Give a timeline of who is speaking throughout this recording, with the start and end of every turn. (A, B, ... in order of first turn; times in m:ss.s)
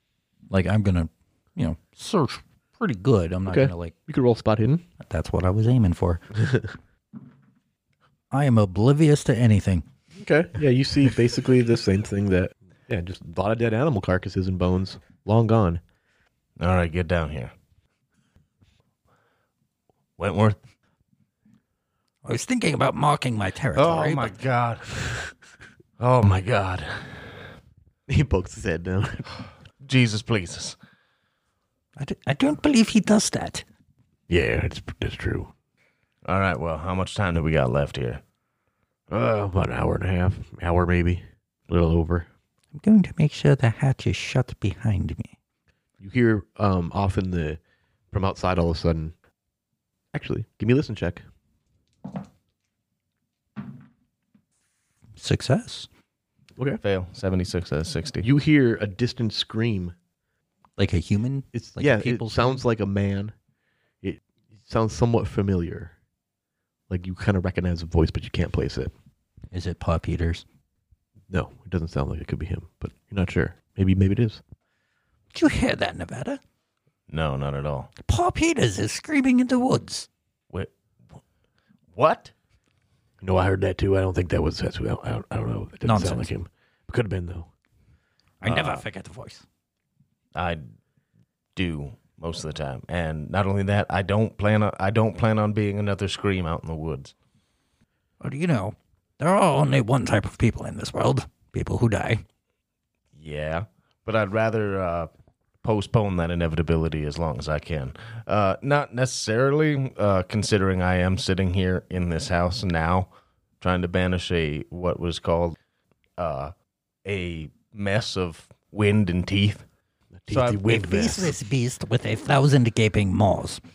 0:00.5-0:03.9 A
0:03.5-0:04.8 B
0:05.0-0:06.2 A
0:06.4-0:06.7 B
0:08.3-0:09.9 A
0:10.2-0:15.8 B
0:16.6-0:17.5 C
0:20.2-0:20.6 C
0:22.2-0:24.3 A
0:23.8-0:25.3 C
0:26.0-0:27.4 C
0:28.1-0:29.3 B
0:29.8-0:30.8 C
0:32.0-0:33.6 A
0:34.3-0:35.5 B
0:36.2-0:38.2 C
0:39.1-0:42.3 B
0:42.8-0:45.3 A
0:46.0-0:47.6 B
0:48.1-0:49.2 B
0:50.1-0:51.2 B
0:55.2-0:55.9 A
0:56.8-0:58.3 C
0:58.2-1:00.0 B
1:00.8-1:02.6 A
1:01.5-1:03.4 B
1:04.0-1:05.9 B
1:06.9-1:08.9 B
1:09.5-1:10.4 A
1:11.3-1:14.4 B
1:15.3-1:16.4 A
1:17.1-1:17.9 C
1:18.0-1:20.1 A
1:22.0-1:22.3 C
1:23.2-1:27.5 B
1:25.8-1:26.3 A
1:28.4-1:29.4 A
1:28.4-1:28.9 C
1:30.4-1:30.7 C
1:31.6-1:37.1 C
1:38.2-1:42.2 A
1:43.1-1:45.1 C
1:45.6-1:55.6 C
1:56.2-1:56.5 C
1:57.0-1:59.7 C
2:00.1-2:01.4 B
2:00.3-2:00.6 C
2:00.6-2:03.6 A